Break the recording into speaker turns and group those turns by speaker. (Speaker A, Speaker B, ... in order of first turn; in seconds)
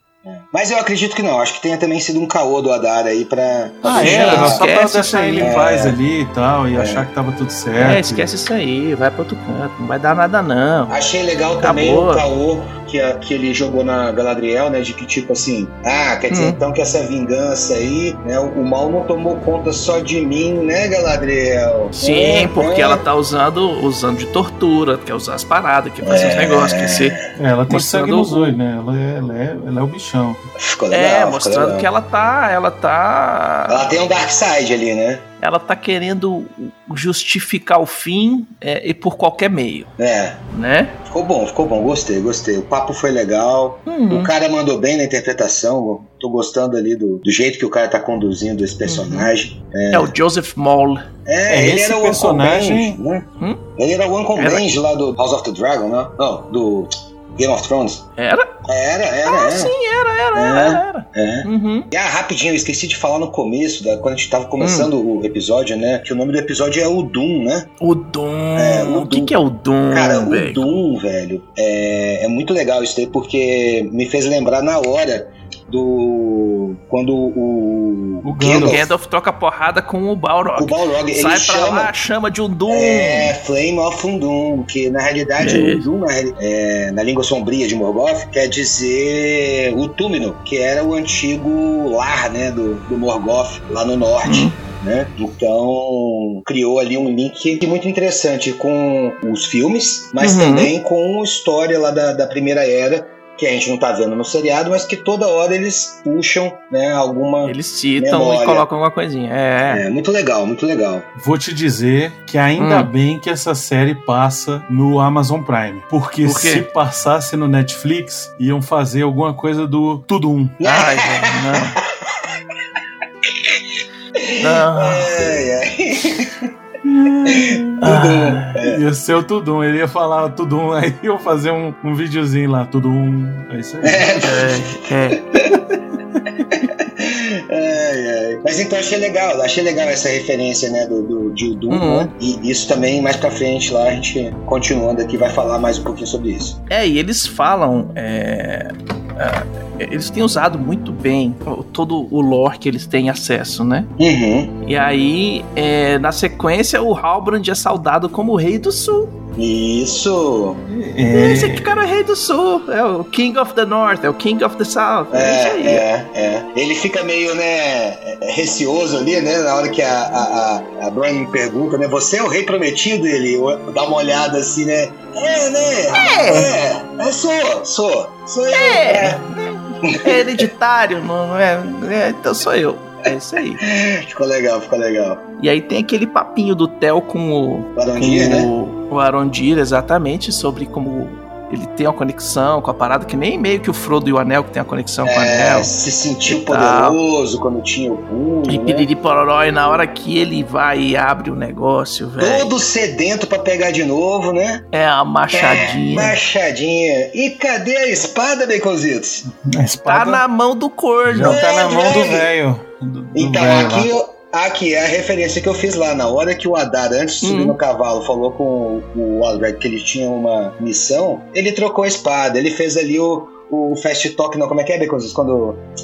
Speaker A: 0.2-4.6, 5.4-6.0, 6.8-7.1, 10.9-23.0, 26.0-27.2, 30.6-31.9, 33.7-35.3, 40.0-40.4, 41.0-50.1, 51.3-58.0, 58.6-59.8, 60.4-67.7, 68.6-69.4, 69.9-78.9, 80.6-81.9, 82.7-108.7, 109.6-111.1, 120.6-121.6, 124.2-126.5, 127.3-128.8, 133.8-135.6, 136.5-146.6, 154.0-154.5, 159.4-160.6, 165.1-179.2, 179.8-180.5, 183.6-185.2, 187.8-188.5, 195.0-198.9, 202.2-204.7, 205.3-209.2, 211.2-212.3, 213.2-225.6
Speaker B: 3.8-8.3, 27.4-30.4, 51.5-53.0, 78.2-78.8, 111.2-120.6, 126.8-127.8, 128.6-134.1, 160.7-161.8, 209.3-210.2, 211.1-213.9
Speaker C: 3.9-5.6, 7.8-11.0, 11.6-12.2, 16.3-16.6, 21.9-27.2, 27.7-28.6, 30.9-34.0, 35.4-39.9, 40.5-41.0, 43.9-44.3, 48.9-49.3, 49.9-51.0, 54.4-54.8, 58.2-58.5, 59.3-61.9, 64.6-64.9, 67.8-70.7, 78.4-83.4, 85.4-85.8, 94.2-94.6, 100.2-100.7, 107.5-109.8, 112.6-112.9, 116.2-116.7, 120.6-121.8, 124.4-125.1, 127.8-128.6, 134.2-135.2, 141.7-142.1, 146.7-153.9, 154.7-159.2, 161.1-165.9, 175.9-176.5, 178.5-183.6, 185.4-195.7, 196.2-197.0, 198.5-202.5, 204.7-206.2, 209.9-211.4, 217.2-217.6